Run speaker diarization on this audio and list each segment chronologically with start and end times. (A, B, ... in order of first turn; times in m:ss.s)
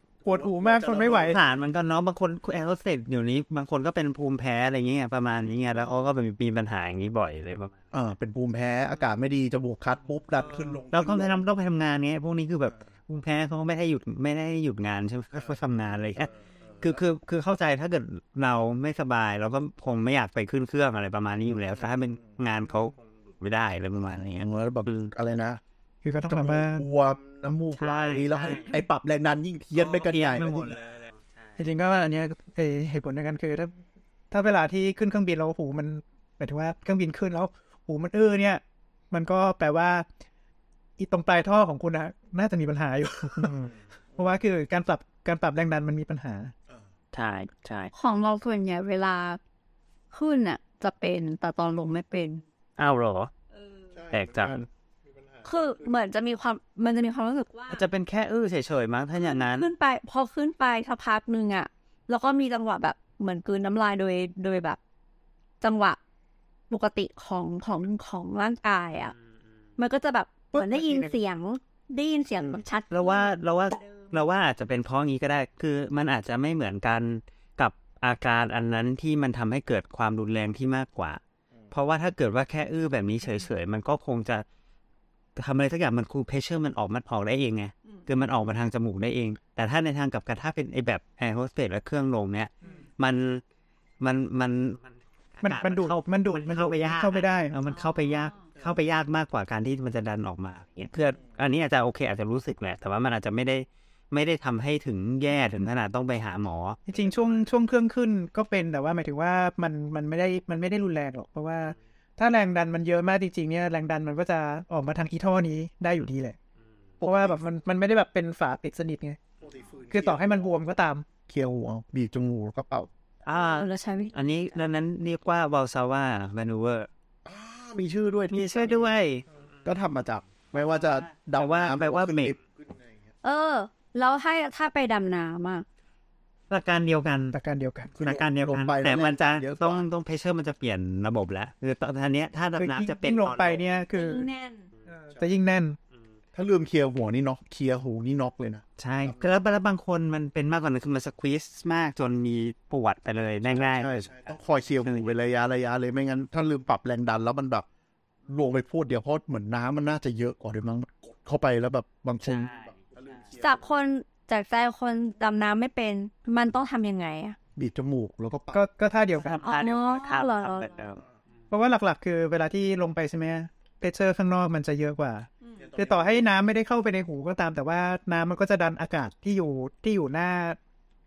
0:00.2-0:01.4 A
0:00.2-0:01.4 B
0:01.1-0:07.8 C
0:07.9-0:11.4 B
0:10.9-0:25.1 C
0:24.1-0:25.6 B
0:26.0-0:26.8 A
0:26.3-0:30.8 B
0:27.8-0:28.7 C
0:29.8-0:31.3 C
0:31.6-0:33.7 A
0:34.3-0:40.0 A
0:41.0-0:43.6 A
0:44.2-0:46.5 A
0:47.1-0:47.9 C
0:47.9-0:49.4 D
0:50.1-0:52.4 D
0:52.8-0:53.3 C
0:53.5-0:54.1 D
0:54.1-0:54.6 C
0:55.4-0:57.8 D
0:57.7-0:59.7 C
0:59.2-1:04.8 D
1:05.6-1:06.0 D
1:06.7-1:09.1 D
1:09.8-1:14.0 D
1:12.9-1:21.2 C
1:21.7-1:24.4 C
1:25.4-1:33.4 C
1:34.0-1:46.8 C
1:35.4-1:37.6 A
1:37.7-1:38.4 D
1:46.8-1:56.4 A
1:57.0-1:57.4 B
1:57.0-1:59.2 A
1:59.4-2:00.5 B
1:59.9-2:01.0 A
2:01.3-2:02.9 B
2:03.2-2:06.9 C
2:03.3-2:04.2 D
2:07.2-2:08.9 B
2:08.3-2:09.2 C
2:09.6-2:12.9 B
2:11.3-2:12.4 C
2:13.2-2:15.6 D
2:16.5-2:17.4 C
2:17.3-2:17.9 A
2:17.9-2:19.8 B
2:18.0-2:23.6 C
2:22.6-2:24.3 A
2:23.9-2:24.7 D
2:25.1-2:25.8 A
2:26.3-2:28.6 B
2:28.8-2:34.0 C
2:33.5-2:37.6 B
2:38.3-2:43.5 B
2:42.2-2:43.0 C
2:43.4-2:47.4 D
2:47.6-2:48.6 B
2:48.5-2:49.4 A
2:49.2-2:51.0 C
2:49.4-2:50.8 D
2:51.5-3:00.6 A
2:55.4-2:55.7 D
2:55.7-2:56.2 B